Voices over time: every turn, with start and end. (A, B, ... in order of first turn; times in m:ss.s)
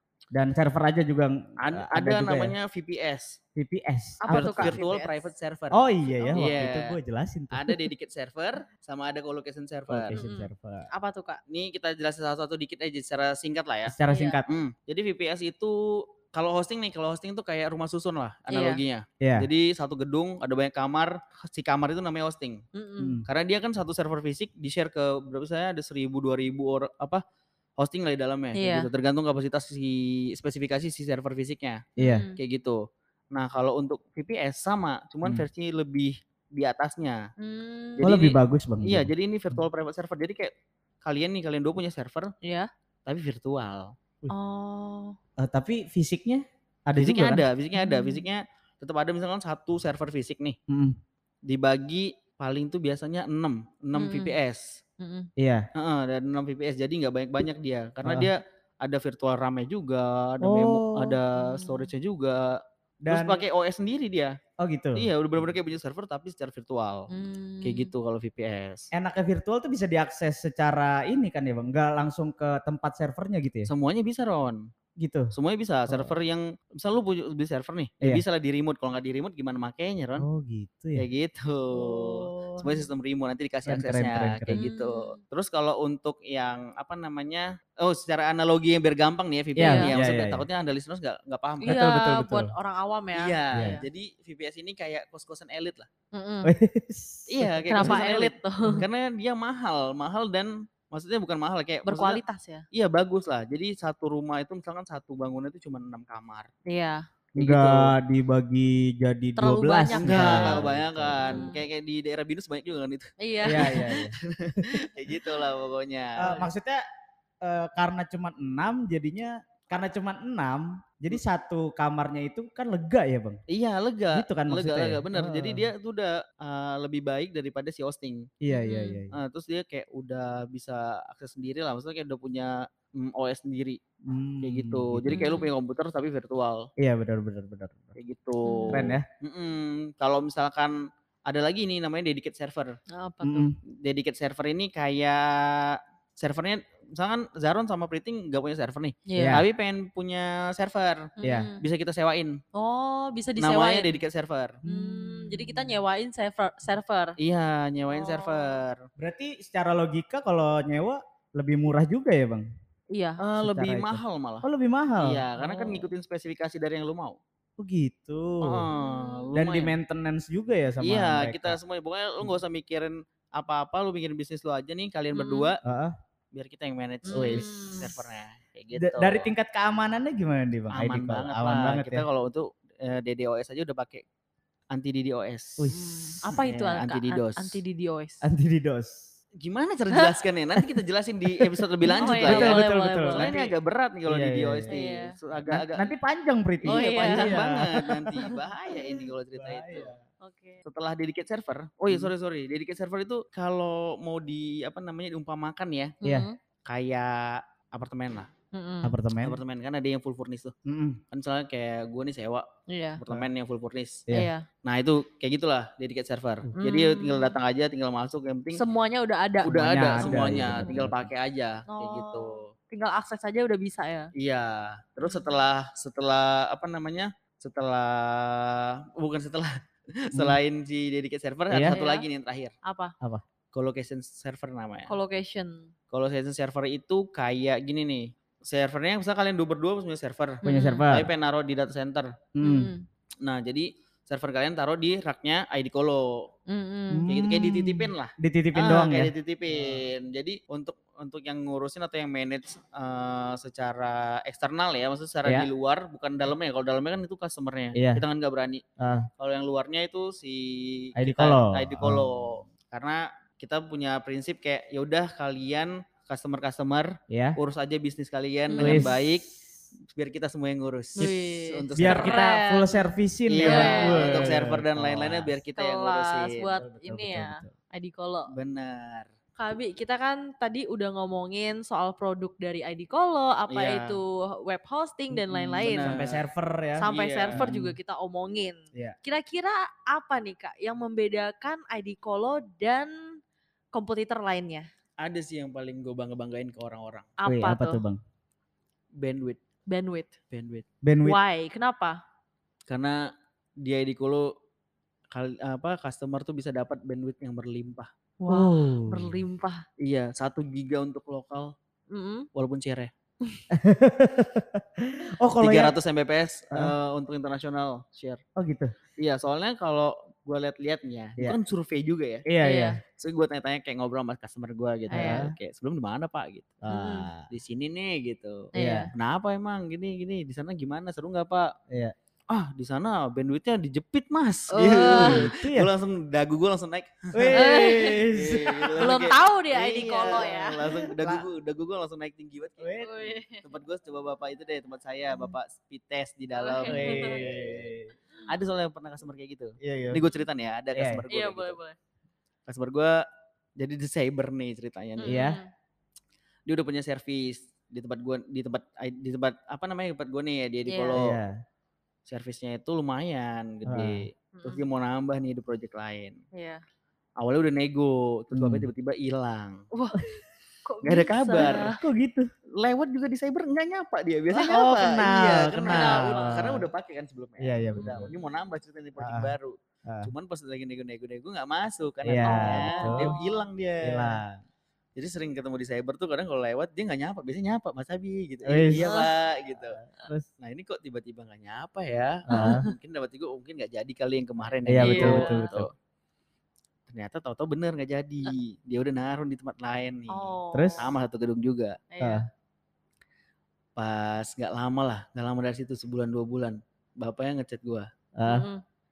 0:00.3-0:02.6 A
0:01.6-0:03.4 B
0:03.6-0:04.8 A
0:04.2-0:05.3 C
0:04.3-0:07.0 B
0:05.7-0:07.9 A
0:06.2-0:06.5 C
0:07.5-0:10.2 B
0:09.9-0:10.9 A
0:10.1-0:11.4 C
0:11.5-0:13.9 B
0:13.9-0:14.4 A
0:14.1-0:14.4 C
0:14.5-0:22.6 B
0:18.5-0:18.8 C
0:19.2-0:19.5 A
0:22.7-0:23.2 C
0:23.0-0:23.3 A
0:23.2-0:27.2 B
0:27.8-0:31.8 B
0:28.6-0:28.9 C
0:32.0-0:32.2 A
0:32.0-0:32.4 C
0:32.4-0:32.8 B
0:33.3-0:37.2 B
0:37.4-0:38.1 C
0:38.0-0:40.5 B
0:38.0-0:39.6 A
0:41.0-0:42.3 B
0:42.4-0:42.7 C
0:43.1-0:43.9 B
0:44.3-0:45.2 C
0:45.4-0:47.4 A
0:47.0-0:50.6 B
0:47.7-0:48.2 C
0:50.7-0:51.0 A
0:51.5-0:54.8 B
0:53.9-0:54.4 C
0:55.0-0:55.3 C
0:55.4-0:55.7 A
0:55.7-1:04.4 B
0:58.0-0:58.3 A
1:00.4-1:01.2 A
1:01.4-1:01.9 C
1:03.0-1:03.4 A
1:04.6-1:05.1 A
1:04.9-1:07.1 B
1:07.1-1:07.9 C
1:07.6-1:08.9 B
1:08.9-1:13.7 A
1:13.7-1:14.7 B
1:15.0-1:15.3 A
1:15.3-1:20.2 B
1:20.2-1:21.0 A
1:21.0-1:31.8 B
1:21.7-1:22.8 A
1:23.6-1:24.6 A
1:24.5-1:25.2 C
1:29.6-1:30.4 A
1:29.6-1:29.9 C
1:31.6-1:32.5 A
1:31.6-1:33.9 C
1:33.1-1:35.9 B
1:33.6-1:33.8 A
1:36.1-1:36.5 C
1:36.4-1:38.1 A
1:37.3-1:42.2 B
1:37.7-1:38.8 C
1:41.9-1:42.6 C
1:42.7-1:46.5 B
1:46.6-1:47.0 C
1:47.4-1:47.9 B
1:47.4-1:51.5 A
1:49.4-1:50.6 C
1:50.0-1:56.3 B
1:51.2-1:51.6 C
1:53.2-1:53.8 C
1:53.4-1:54.7 A
1:56.2-1:56.8 A
1:57.4-2:03.4 A
2:03.5-2:08.3 B
2:04.1-2:05.7 A
2:08.4-2:09.1 A
2:08.5-2:09.0 C
2:09.1-2:13.8 B
2:14.0-2:15.2 A
2:14.4-2:16.7 B
2:15.1-2:15.5 C
2:16.8-2:17.9 A
2:18.0-2:22.8 B
2:18.4-2:18.9 C
2:18.7-2:19.0 A
2:22.9-2:23.5 C
2:23.2-2:23.6 A
2:23.7-2:32.4 B
2:29.1-2:29.4 C
2:29.1-2:29.4 A
2:31.2-2:31.6 C
2:31.2-2:31.5 A
2:32.5-2:34.0 C
2:33.4-2:34.6 B
2:34.6-2:35.8 A
2:34.6-2:37.2 C
2:37.2-2:38.8 B
2:37.9-2:38.6 C
2:39.0-2:42.4 A
2:42.9-2:43.2 C
2:43.2-2:44.5 B
2:43.4-2:45.2 A
2:45.0-2:47.2 B
2:45.4-2:45.9 C
2:47.6-2:48.7 A
2:48.4-2:49.7 B
2:48.7-2:49.3 C
2:49.3-2:51.6 A
2:50.8-2:55.6 B
2:55.1-2:55.5 C
2:55.6-2:55.9 A
2:56.3-2:59.3 B
2:57.1-2:57.9 C
2:57.1-2:57.8 A
2:58.8-3:02.0 A
3:00.7-3:04.0 B
3:04.7-3:05.7 B
3:05.6-3:06.4 A
3:05.7-3:08.2 C
3:06.4-3:07.6 B
3:08.2-3:09.0 A
3:09.4-3:15.9 B
3:11.9-3:13.3 A
3:11.9-3:13.5 C
3:14.1-3:14.8 A
3:14.7-3:15.1 C
3:15.4-3:18.4 A
3:16.6-3:19.9 B
3:16.7-3:17.4 C
3:19.4-3:20.0 A
3:20.2-3:20.6 C
3:20.6-3:26.0 B
3:26.0-3:26.4 C
3:26.0-3:26.3 A
3:26.6-3:28.3 B
3:28.5-3:28.9 C
3:28.8-3:29.4 A
3:29.2-3:30.5 B
3:30.6-3:31.0 A
3:31.1-3:32.5 B
3:32.7-3:33.0 C
3:33.0-3:34.1 B
3:34.1-3:34.4 C
3:34.6-3:38.6 B
3:36.6-3:37.4 C
3:38.6-3:40.8 C
3:39.4-3:42.5 B
3:39.4-3:41.1 A
3:41.7-3:44.1 C
3:44.2-3:52.5 B
3:45.0-3:45.3 C
3:50.1-3:50.4 A
3:51.5-3:51.8 A
3:51.7-3:52.1 C
3:52.6-3:52.9 C
3:53.5-3:54.9 B
3:54.9-3:55.7 C
3:55.9-4:02.2 B
4:00.4-4:00.9 C
4:00.4-4:01.1 A
4:02.4-4:02.7 A
4:02.4-4:02.8 C
4:03.2-4:06.3 B
4:06.5-4:07.1 C
4:06.9-4:09.8 A
4:07.1-4:18.6 B
4:17.7-4:18.0 A
4:18.8-4:19.1 A
4:19.2-4:29.3 B
4:21.0-4:22.1 A
4:27.1-4:27.4 A
4:28.5-4:28.9 C
4:28.6-4:29.2 A
4:29.8-4:32.2 B
4:31.0-4:32.9 C
4:31.8-4:35.4 A
4:33.3-4:36.5 B
4:33.4-4:34.3 C
4:35.6-4:38.3 C
4:36.6-4:37.5 A
4:38.3-4:39.1 B
4:39.4-4:46.0 C
4:43.5-4:44.0 B
4:45.1-4:47.8 A
4:45.6-4:46.2 B
4:46.8-4:53.2 C
4:46.9-4:47.5 B
4:53.7-4:54.7 C
4:55.0-4:57.1 B
4:57.2-4:57.8 C
4:57.2-4:58.0 A
4:59.0-4:59.4 B
4:59.7-5:00.1 C
5:00.3-5:00.6 B
5:00.8-5:01.2 A
5:01.0-5:02.0 C
5:02.7-5:03.1 B
5:03.6-5:04.3 B
5:05.1-5:07.9 B
5:08.2-5:09.6 C
5:08.3-5:09.2 A
5:09.8-5:11.5 B
5:11.9-5:12.3 C
5:12.3-5:12.9 B
5:13.5-5:15.8 A
5:15.4-5:18.2 B
5:18.4-5:18.7 A
5:19.0-5:22.2 B
5:22.2-5:22.8 A
5:22.4-5:22.8 C
5:23.0-5:26.6 B
5:24.9-5:25.2 C
5:24.9-5:25.3 A
5:26.6-5:27.3 A
5:26.7-5:27.1 C
5:27.3-5:31.5 B
5:28.6-5:28.9 A
5:28.6-5:28.9 C
5:31.7-5:31.9 A
5:32.3-5:47.7 B
5:34.5-5:35.3 C
5:34.9-5:35.7 A
5:37.1-5:39.0 A
5:37.4-5:38.1 C
5:38.8-5:40.6 C
5:40.1-5:41.2 A
5:42.6-5:43.1 A
5:42.8-5:43.4 C
5:46.4-5:47.2 C
5:46.6-5:47.9 A
5:48.3-5:51.6 B
5:49.6-5:50.0 A
5:50.7-5:51.0 A
5:51.1-5:51.8 C
5:52.5-5:53.0 B
5:53.6-5:55.2 B
5:55.0-5:55.5 C
5:55.0-5:55.4 A
5:56.5-6:01.2 B
6:00.7-6:01.0 C
6:01.0-6:01.4 A
6:02.1-6:06.2 B
6:03.6-6:04.1 A
6:04.3-6:04.6 C
6:06.3-6:06.6 C
6:07.2-6:09.6 B
6:08.3-6:08.7 A
6:09.7-6:11.8 C
6:10.8-6:11.7 B
6:11.7-6:12.3 A
6:12.6-6:24.2 B
6:14.4-6:16.7 A
6:15.6-6:16.5 C
6:17.4-6:18.1 A
6:17.8-6:18.1 C
6:19.0-6:19.3 A
6:22.0-6:23.1 A
6:22.2-6:23.4 C
6:23.8-6:24.4 A
6:25.0-6:29.8 B
6:28.4-6:29.1 A
6:28.8-6:29.1 C
6:29.6-6:30.3 A
6:30.4-6:35.7 B
6:32.3-6:32.6 A
6:32.3-6:32.7 C
6:34.6-6:35.7 A
6:34.8-6:35.5 C
6:36.9-6:41.8 B
6:40.1-6:40.9 C
6:40.5-6:40.8 A
6:41.9-6:42.2 C
6:43.8-6:47.9 B
6:48.2-6:48.4 A
6:48.2-6:48.6 C